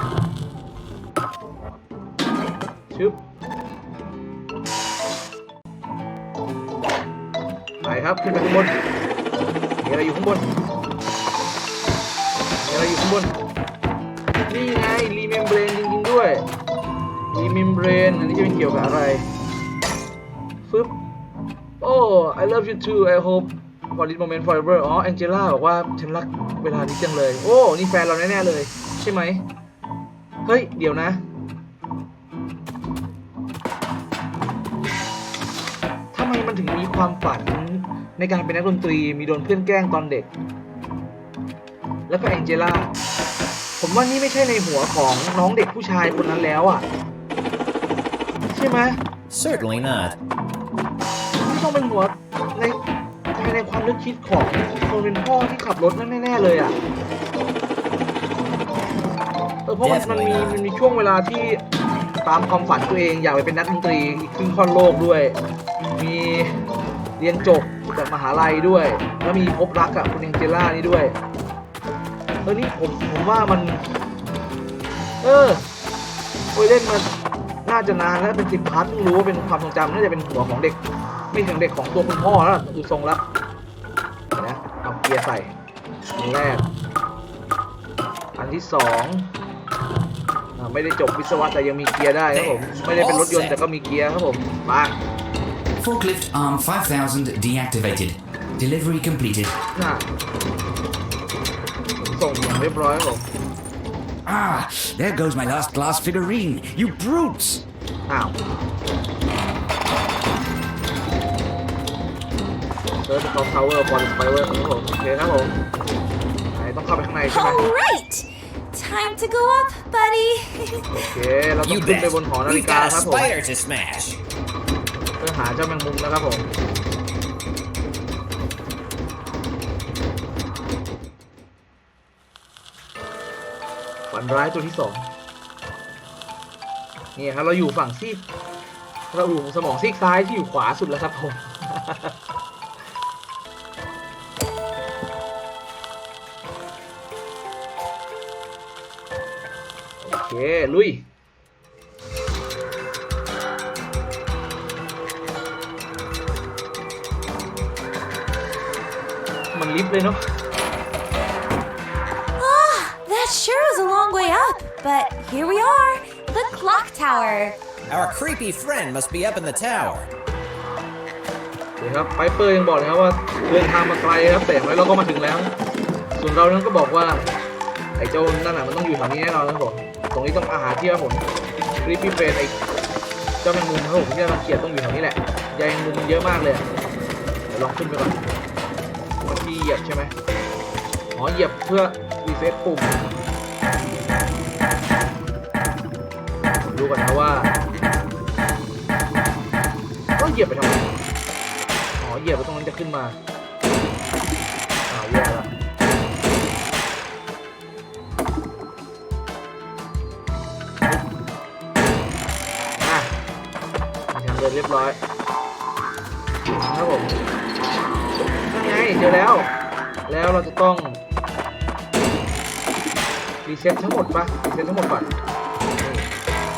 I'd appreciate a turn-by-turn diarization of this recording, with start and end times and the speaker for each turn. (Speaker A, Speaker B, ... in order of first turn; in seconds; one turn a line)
Speaker A: 2.9-3.2
Speaker A: 7.8-8.8
Speaker A: 9.8-10.5
Speaker A: 12.6-13.4
Speaker A: 14.5-16.5
Speaker A: 17.3-19.3
Speaker A: 20.7-20.9
Speaker A: 21.8-29.5
Speaker A: 30.4-31.2
Speaker A: 36.1-40.3
Speaker A: 42.1-42.9
Speaker A: 43.8-46.9
Speaker A: 48.5-49.0
Speaker B: 49.3-50.2
Speaker A: 51.4-52.8
Speaker A: 53.4-56.8
Speaker A: 59.7-61.6
Speaker B: 59.8-60.6
Speaker A: 62.2-65.4
Speaker A: 66.0-66.5
Speaker A: 67.2-71.2
Speaker A: 72.5-73.8
Speaker A: 75.2-75.7
Speaker A: 76.5-77.1
Speaker A: 77.7-80.8
Speaker A: 81.3-83.2
Speaker A: 84.3-85.5
Speaker A: 86.2-86.7
Speaker A: 88.4-89.3
Speaker A: 90.6-95.0
Speaker B: 92.3-93.7
Speaker C: 95.8-99.5
Speaker A: 99.8-100.1
Speaker A: 102.0-103.3
Speaker C: 104.3-107.6
Speaker A: 108.1-108.4
Speaker A: 113.0-115.6
Speaker A: 116.5-117.6
Speaker D: 117.3-121.0
Speaker A: 120.9-123.3
Speaker B: 121.6-124.2
Speaker A: 125.2-126.5
Speaker A: 134.1-135.1
Speaker A: 137.2-138.2
Speaker A: 139.1-142.1
Speaker A: 150.0-151.1
Speaker A: 159.5-160.2
Speaker D: 162.4-167.6
Speaker B: 167.9-170.1
Speaker A: 171.8-175.6
Speaker A: 176.2-177.3
Speaker A: 178.0-181.2
Speaker A: 181.8-182.6
Speaker A: 183.4-186.7
Speaker A: 187.5-188.2
Speaker A: 189.2-190.1
Speaker A: 191.1-193.2
Speaker A: 196.6-197.6
Speaker A: 200.2-200.9
Speaker A: 202.0-203.2
Speaker A: 204.9-205.5
Speaker A: 212.8-213.1
Speaker A: 214.1-215.0
Speaker A: 216.5-217.2
Speaker A: 218.5-219.5
Speaker A: 220.1-221.0
Speaker A: 223.5-225.2
Speaker A: 225.8-226.1